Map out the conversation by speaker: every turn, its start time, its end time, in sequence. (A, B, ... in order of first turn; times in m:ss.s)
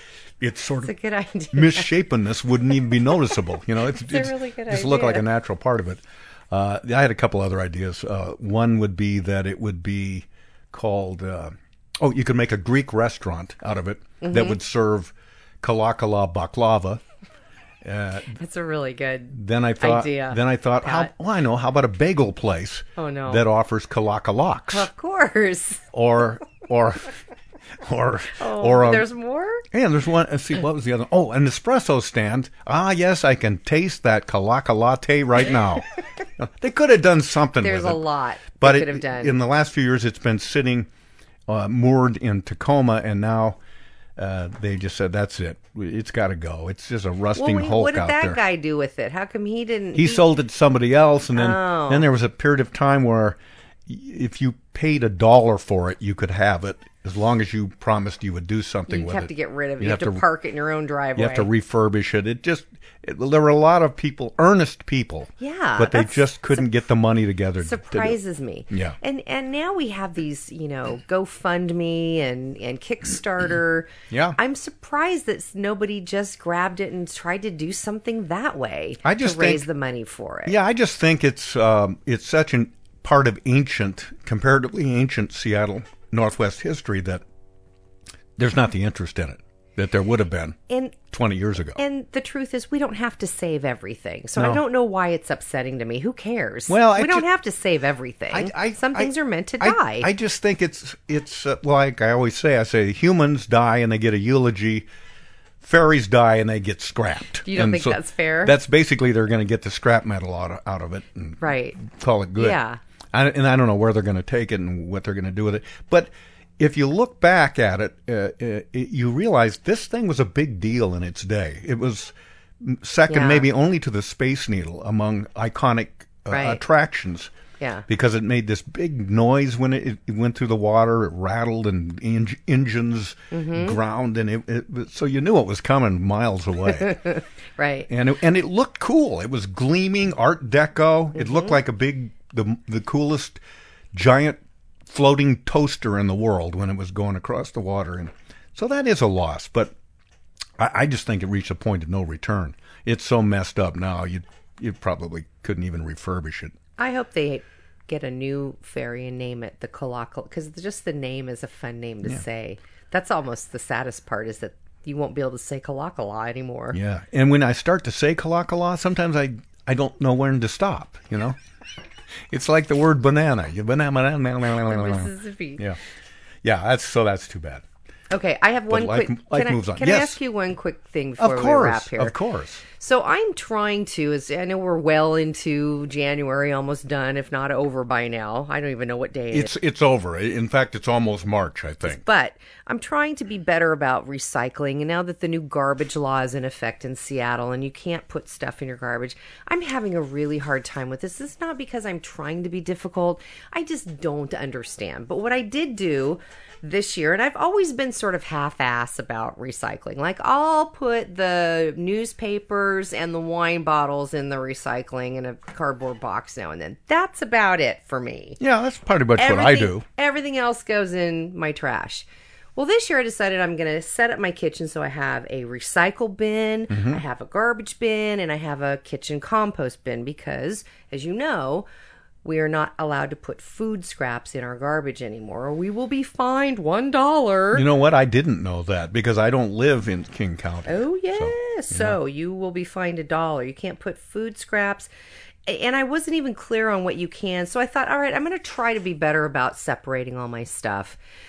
0:00.4-0:00.9 A
0:00.8-0:01.9 B
0:01.5-0:17.0 A
0:03.9-0:05.2 B
0:14.2-0:14.6 B
0:17.8-0:18.4 A
0:18.4-0:21.1 B
0:19.3-0:24.9 A
0:23.0-0:23.4 B
0:24.7-0:25.8 B
0:25.9-0:27.1 A
0:27.8-0:29.0 A
0:28.4-0:29.6 B
0:29.7-0:35.8 A
0:36.4-0:38.0 A
0:37.6-0:39.4 B
0:38.6-0:40.9 A
0:41.5-0:43.6 A
0:44.2-0:48.4 A
0:47.4-0:50.2 B
0:49.9-1:00.2 A
0:51.3-0:52.1 B
0:58.9-1:01.5 B
1:01.2-1:08.2 A
1:05.4-1:06.6 B
1:07.6-1:20.6 B
1:08.7-1:09.0 A
1:14.1-1:14.4 A
1:19.0-1:19.7 A
1:20.4-1:27.2 A
1:28.4-1:30.6 A
1:30.7-1:31.0 B
1:31.1-1:31.8 A
1:31.8-1:40.1 B
1:34.4-1:34.6 A
1:36.7-1:37.3 A
1:38.3-1:44.9 A
1:45.6-1:52.6 A
1:47.4-1:48.6 B
1:51.4-1:51.8 B
1:52.4-1:52.8 B
1:53.1-2:07.3 A
2:03.1-2:03.5 B
2:06.3-2:06.6 B
2:07.6-2:07.8 B
2:07.9-2:17.0 A
2:13.3-2:13.8 B
2:16.7-2:17.9 B
2:17.9-2:23.4 A
2:21.2-2:21.6 B
2:23.9-2:29.7 A
2:30.6-2:36.5 A
2:36.8-2:46.8 B
2:46.7-2:51.4 A
2:52.3-2:55.8 A
2:54.7-2:55.6 B
2:56.4-2:57.6 A
2:58.1-3:02.2 B
2:58.7-3:00.2 A
3:01.2-3:02.6 A
3:02.8-3:09.5 B
3:09.3-3:12.0 A
3:11.8-3:38.4 B
3:38.4-3:39.8 A
3:39.2-3:51.7 B
3:46.7-3:47.0 A
3:52.2-3:57.6 B
3:57.5-4:02.0 A
4:00.6-4:04.9 B
4:05.4-4:11.0 B